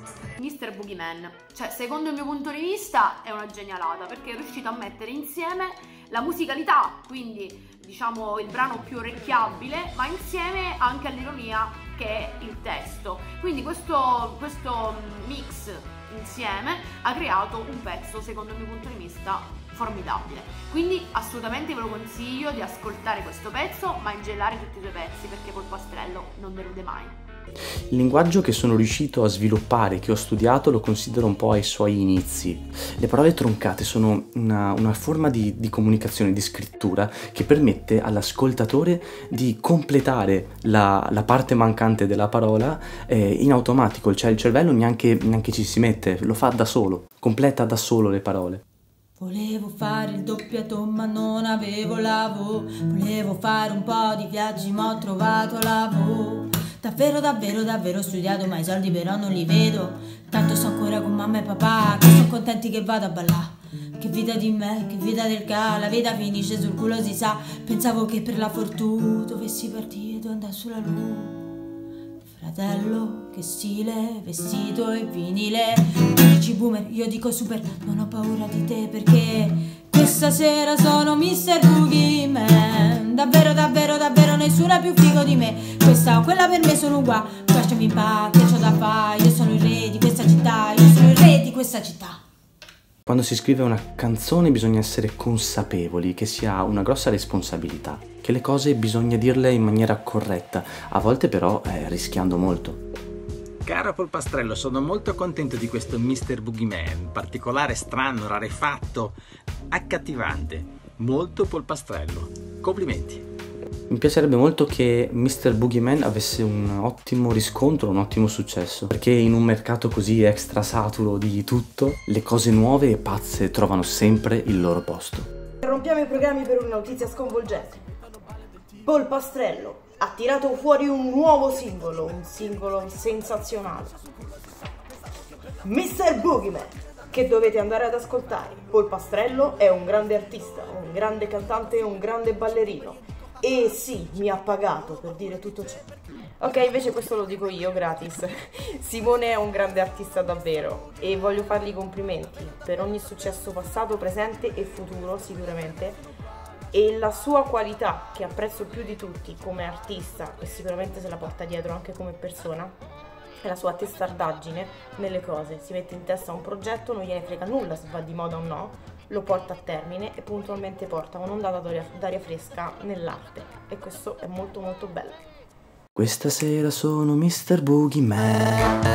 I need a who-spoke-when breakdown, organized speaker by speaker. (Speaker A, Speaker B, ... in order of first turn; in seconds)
Speaker A: 0.4-27.2
Speaker B: 27.9-48.6, 93.1-102.8, 113.9-125.3, 175.9-178.6
Speaker C: 49.2-71.6, 72.3-92.2
Speaker D: 103.7-106.5
Speaker E: 125.6-127.8, 128.8-134.0, 135.6-145.9, 146.4-156.0, 156.7-162.7, 163.4-175.2